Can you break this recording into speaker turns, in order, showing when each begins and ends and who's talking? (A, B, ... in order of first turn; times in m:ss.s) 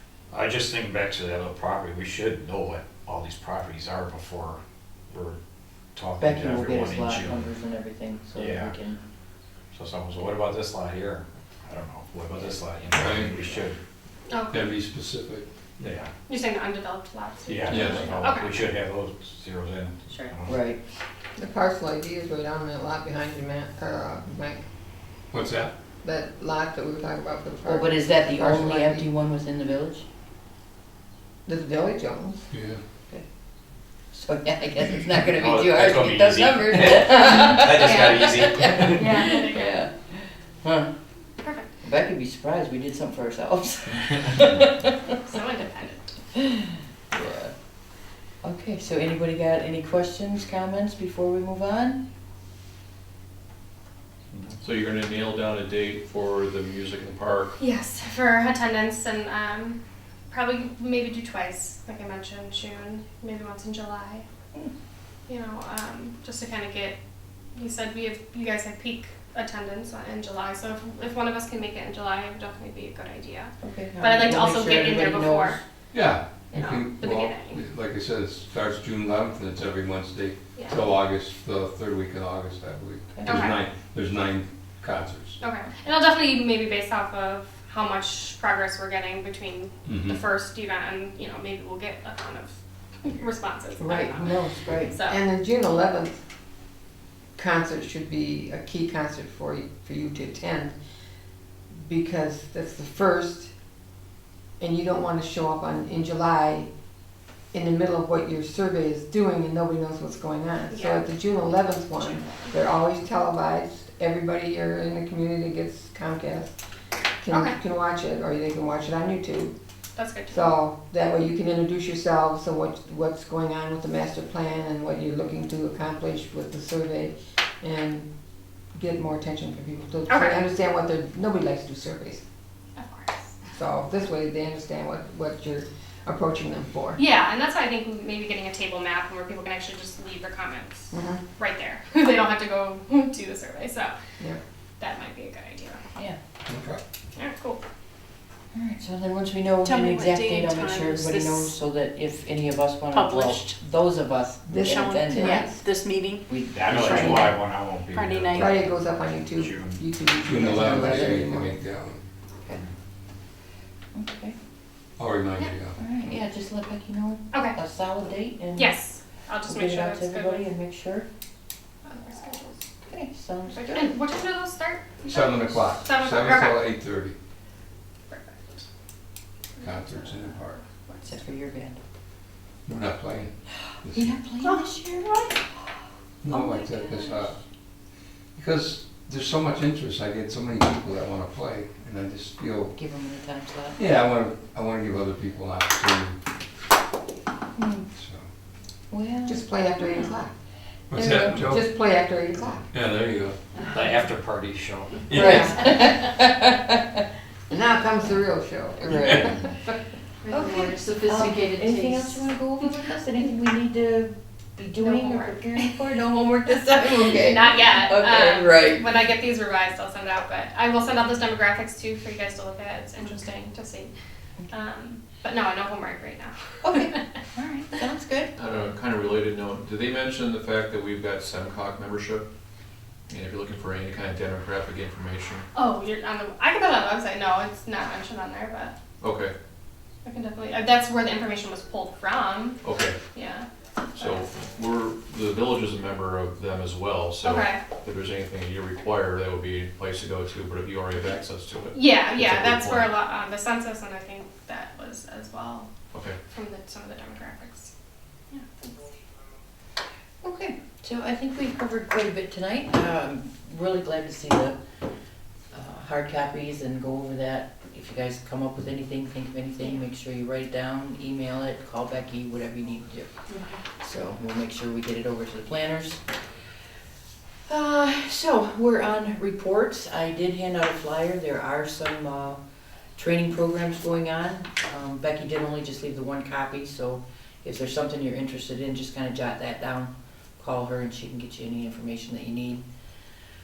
0:00.3-0:05.4 A
0:06.0-0:07.5 A
0:06.2-0:09.0 B
0:08.4-0:08.7 A
0:09.7-0:13.8 A
0:12.9-0:13.3 C
0:14.3-0:14.7 D
0:14.5-0:15.5 C
0:15.8-0:16.1 A
0:16.3-0:18.6 D
0:17.5-0:20.6 A
0:17.7-0:18.2 C
0:20.1-0:20.4 D
0:20.5-0:20.8 B
0:21.4-0:24.6 E
0:25.3-0:25.7 C
0:26.0-0:29.1 E
0:27.6-0:30.1 B
0:31.5-0:32.5 E
0:32.5-0:32.8 C
0:34.1-0:40.9 B
0:35.4-0:39.2 A
0:39.0-0:39.4 E
0:39.2-0:39.8 D
0:41.4-0:41.7 D
0:41.8-0:44.9 B
0:45.1-0:46.1 D
0:47.1-0:47.5 B
0:48.4-0:52.0 B
0:54.3-0:54.6 A
0:54.6-0:57.6 F
0:57.6-0:59.8 D
1:00.3-1:04.2 D
1:05.3-1:07.0 D
1:07.6-1:15.6 D
1:13.6-1:15.6 B
1:15.9-1:25.4 C
1:16.5-1:17.6 D
1:20.6-1:20.8 D
1:23.2-1:23.5 B
1:23.3-1:23.6 D
1:25.4-1:34.3 D
1:29.8-1:30.2 C
1:33.8-1:35.0 B
1:34.2-1:34.5 E
1:34.9-1:35.2 D
1:35.0-1:36.2 E
1:37.4-1:40.8 E
1:41.7-1:43.5 E
1:44.6-1:46.7 E
1:47.5-1:56.6 E
1:50.7-1:51.1 D
1:52.0-1:52.5 D
1:57.2-1:59.6 E
1:57.3-1:57.6 D
2:00.0-2:00.5 D
2:00.3-2:08.1 E
2:08.7-2:12.2 E
2:10.1-2:10.5 D
2:12.8-2:13.3 D
2:13.5-2:17.0 E
2:17.0-2:24.0 D
2:20.9-2:21.4 E
2:24.8-2:25.8 D
2:26.5-2:26.8 C
2:27.2-2:27.6 D
2:28.5-2:35.5 B
2:29.6-2:31.5 G
2:32.9-2:33.6 G
2:34.5-2:35.6 E
2:34.7-2:36.2 G
2:36.3-2:37.4 B
2:36.5-2:38.7 A
2:36.7-2:37.4 E
2:37.9-2:38.5 G
2:38.4-2:41.5 E
2:39.4-2:39.8 A
2:40.2-2:42.0 C
2:40.4-2:41.4 B
2:43.9-2:44.4 B
2:45.0-2:45.8 C
2:45.8-2:48.9 B
2:47.3-2:47.6 D
2:48.6-2:50.5 D
2:49.4-2:51.1 B
2:51.8-2:52.7 D
2:52.9-2:54.0 B
2:53.5-2:56.6 D
2:55.0-2:57.2 C
2:58.1-2:58.6 D
2:59.5-3:01.2 D
2:59.6-3:00.6 C
3:01.0-3:01.8 B
3:02.7-3:04.3 C
3:03.9-3:05.4 B
3:06.2-3:07.4 C
3:06.3-3:07.3 B
3:08.4-3:12.8 C
3:12.8-3:13.8 B
3:13.8-3:16.2 C
3:17.6-3:17.8 B
3:17.9-3:18.3 C
3:18.9-3:19.5 B
3:19.3-3:20.3 E
3:20.9-3:21.7 C
3:21.0-3:21.5 B
3:21.4-3:22.7 E
3:22.7-3:23.4 C
3:23.7-3:25.7 A
3:25.1-3:25.6 E
3:25.1-3:26.8 B
3:27.5-3:29.8 E
3:28.8-3:29.3 B
3:29.0-3:29.3 C
3:30.2-3:32.1 G
3:30.3-3:39.0 B
3:34.8-3:35.8 D
3:37.2-3:43.9 D
3:44.5-3:47.0 D
3:46.6-3:48.3 B
3:48.4-3:52.2 F
3:53.1-3:55.5 F
3:55.5-3:58.8 D
3:59.0-3:59.3 F
4:00.0-4:03.5 D
4:02.6-4:03.0 F
4:04.0-4:12.9 F
4:07.2-4:07.6 D
4:11.7-4:15.7 D
4:15.9-4:16.2 F
4:16.2-4:17.7 D
4:18.3-4:18.7 D
4:20.2-4:24.6 B
4:25.5-4:33.1 B
4:33.3-4:33.6 G
4:33.8-4:36.0 B
4:37.5-4:42.4 B
4:43.0-4:52.6 B